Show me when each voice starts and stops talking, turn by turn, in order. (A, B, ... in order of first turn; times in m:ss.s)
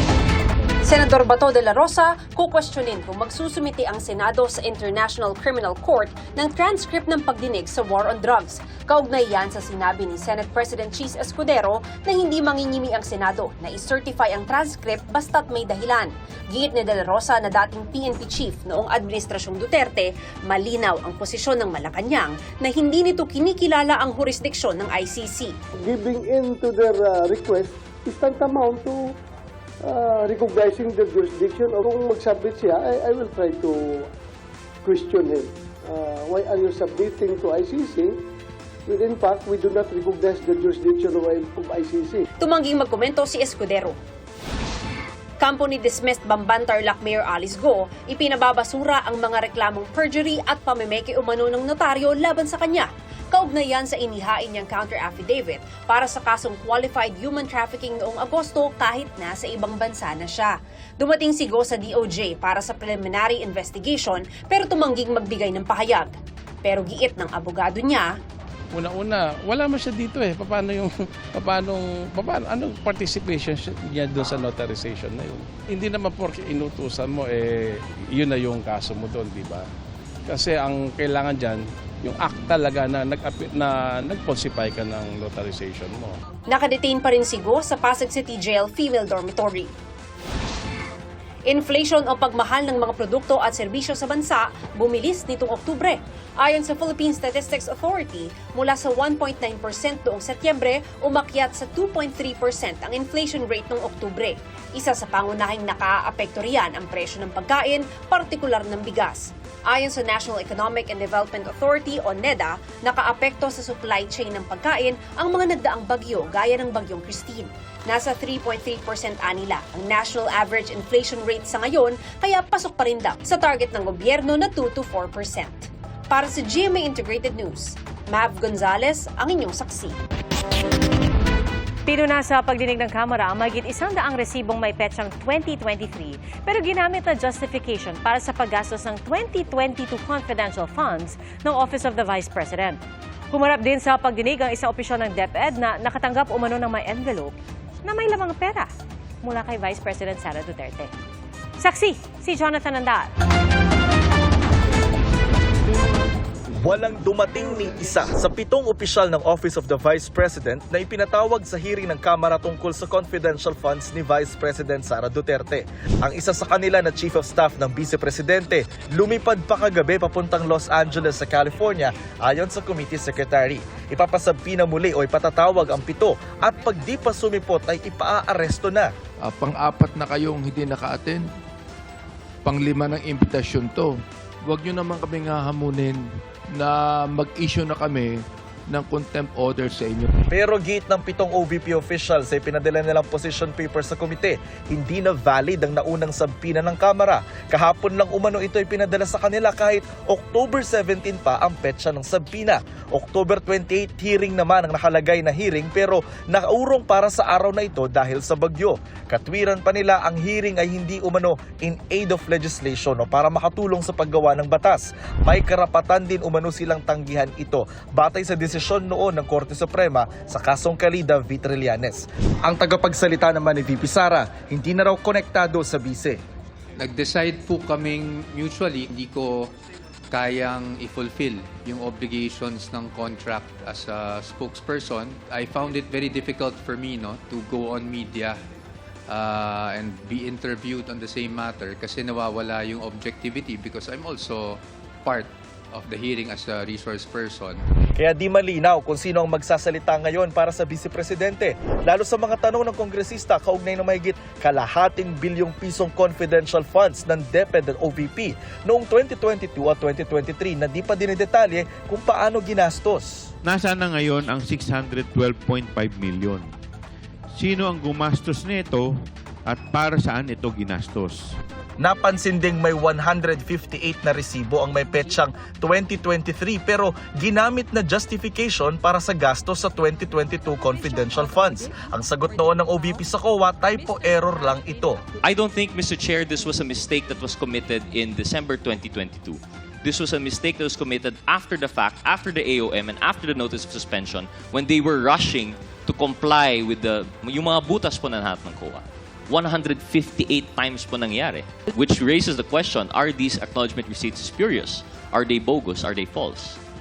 0:00.8-0:25.5 A
0:25.8-0:29.1 B
0:29.8-0:34.0 B
0:34.8-0:38.2 B
0:38.9-0:42.2 B
0:42.4-0:44.0 A
0:45.4-1:08.2 A
1:08.8-1:19.7 C
1:20.3-1:26.2 C
1:26.5-1:29.7 A
1:31.5-2:10.0 A
2:11.9-2:22.8 D
2:23.3-2:28.7 D
2:29.2-2:30.9 D
2:31.6-2:33.1 D
2:36.6-2:58.9 E
2:59.3-3:01.2 F
3:02.4-3:04.0 F
3:04.5-3:06.0 F
3:06.6-3:08.2 F
3:08.7-3:10.1 F
3:10.3-3:46.2 E
3:46.8-3:49.5 G
3:50.1-3:58.4 G
3:59.1-4:07.6 G
4:08.0-4:23.3 E
4:23.4-4:26.5 H
4:27.4-4:28.8 H
4:29.5-4:31.4 H
4:31.8-4:45.0 E
4:45.2-5:06.6 I